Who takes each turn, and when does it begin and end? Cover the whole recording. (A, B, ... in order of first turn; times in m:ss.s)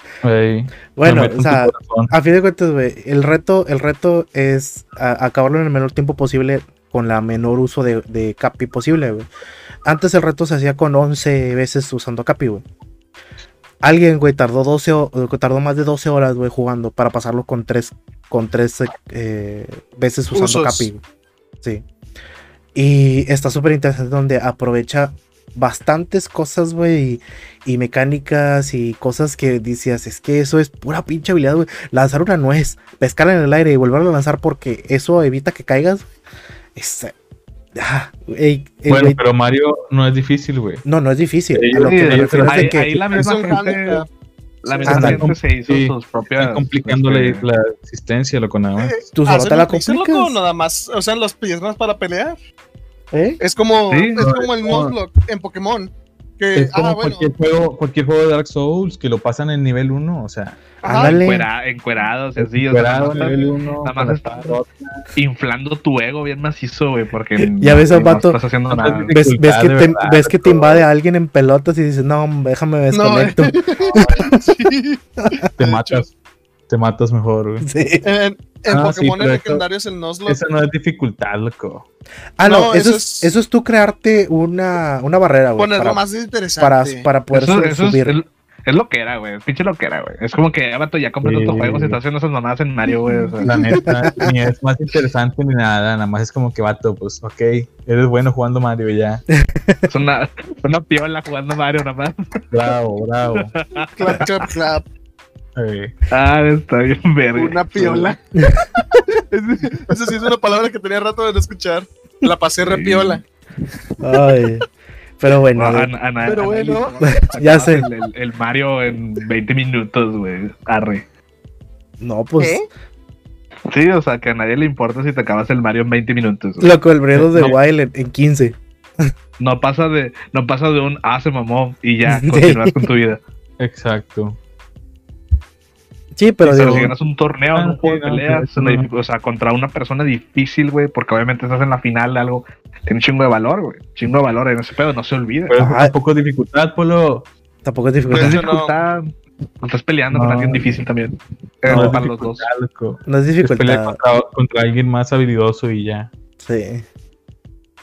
0:00.2-0:02.1 A
0:00.9-0:09.3 B
0:09.8-0:12.6 B
0:13.8-0:21.0 B
0:20.3-0:20.9 C
0:22.7-0:36.1 B
0:36.8-0:37.1 B
0:37.7-0:39.2 B
0:38.9-0:40.8 A
0:40.8-0:43.2 B
0:41.5-0:42.8 A
0:41.8-0:44.0 D
0:43.1-0:44.1 C
0:44.6-0:47.4 D
0:44.7-0:45.1 C
0:44.8-0:45.3 B
0:44.8-0:49.1 A
0:48.8-0:52.4 C
0:49.1-0:50.4 B
0:53.1-0:53.4 B
0:53.4-0:57.3 C
0:53.9-0:54.2 D
0:54.2-0:55.0 A
0:56.5-1:00.8 A
1:00.8-1:01.5 B
1:00.8-1:01.2 C
1:00.9-1:04.6 D
1:02.4-1:05.1 A
1:05.2-1:09.1 D
1:07.6-1:08.4 B
1:08.7-1:10.8 A
1:09.1-1:14.3 B
1:12.9-1:15.0 C
1:15.2-1:15.5 B
1:15.6-1:16.1 A
1:15.6-1:16.0 C
1:16.7-1:17.6 A
1:17.6-1:18.0 B
1:18.0-1:20.4 C
1:18.7-1:19.6 A
1:20.3-1:21.8 A
1:22.4-1:26.0 B
1:22.4-1:23.3 C
1:25.6-1:27.1 C
1:26.6-1:28.1 B
1:27.3-1:33.6 D
1:31.2-1:32.0 A
1:33.2-1:33.6 C
1:33.4-1:39.2 A
1:39.4-1:39.8 B
1:39.9-1:42.4 D
1:42.5-1:43.5 A
1:43.3-1:44.2 D
1:44.0-1:44.9 C
1:45.6-1:45.9 A
1:46.1-1:48.1 D
1:47.4-1:48.2 C
1:48.4-1:48.6 B
1:48.8-1:53.2 C
1:52.6-1:53.2 D
1:54.0-1:54.7 B
1:55.2-1:55.9 B
1:55.5-2:01.0 D
1:56.2-1:57.1 C
1:57.2-1:57.8 B
2:02.0-2:02.6 B
2:02.4-2:02.6 C
2:03.7-2:06.7 D
2:06.6-2:08.6 B
2:07.1-2:07.5 A
2:09.4-2:13.2 D
2:12.1-2:12.9 B
2:13.6-2:14.4 A
2:16.2-2:16.9 B
2:16.4-2:25.5 D
2:16.6-2:16.9 A
2:17.5-2:18.9 A
2:25.5-2:27.3 A
2:25.6-2:25.9 B
2:27.6-2:28.4 B
2:28.1-2:29.1 D
2:28.1-2:28.7 C
2:29.6-2:32.5 D
2:30.1-2:30.8 A
2:31.7-2:36.1 A
2:31.7-2:32.0 B
2:33.0-2:34.0 B
2:36.4-2:36.8 B